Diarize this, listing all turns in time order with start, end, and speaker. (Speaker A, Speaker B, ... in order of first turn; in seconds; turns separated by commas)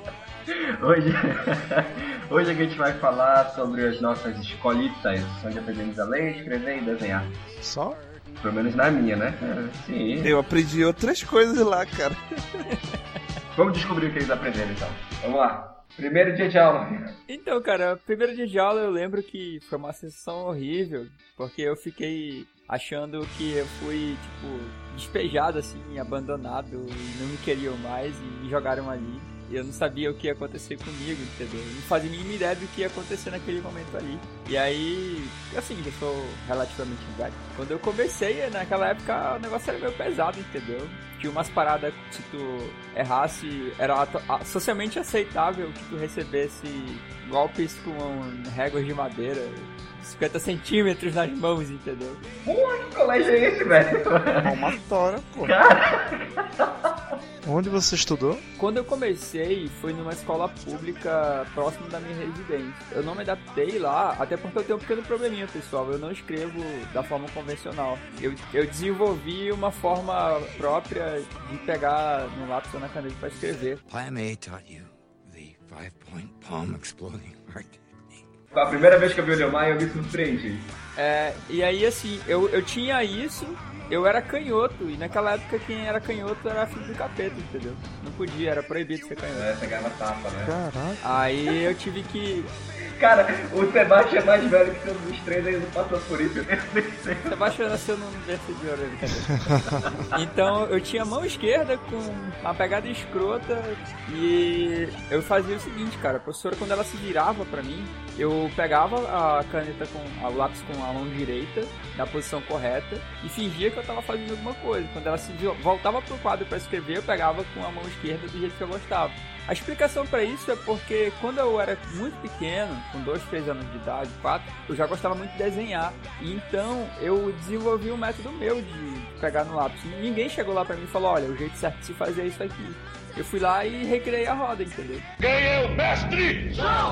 Speaker A: 0.5-7.4, Speaker B: 7.6-8.0, Speaker A: 8.4-10.3, Speaker C: 10.2-12.2, Speaker D: 12.7-12.9, Speaker A: 13.6-17.1, Speaker D: 17.3-52.2, Speaker A: 52.4-54.5, Speaker C: 54.4-55.5, Speaker A: 55.4-56.7, Speaker B: 57.4-58.4, Speaker D: 58.6-73.8, Speaker E: 73.8-78.2, Speaker A: 78.5-80.7, Speaker D: 81.0-89.5, Speaker A: 89.3-90.5, Speaker B: 90.4-91.2, Speaker D: 91.0-92.5, Speaker A: 93.0-97.8, Speaker D: 97.3-99.3, Speaker B: 99.4-100.0, Speaker D: 100.1-135.1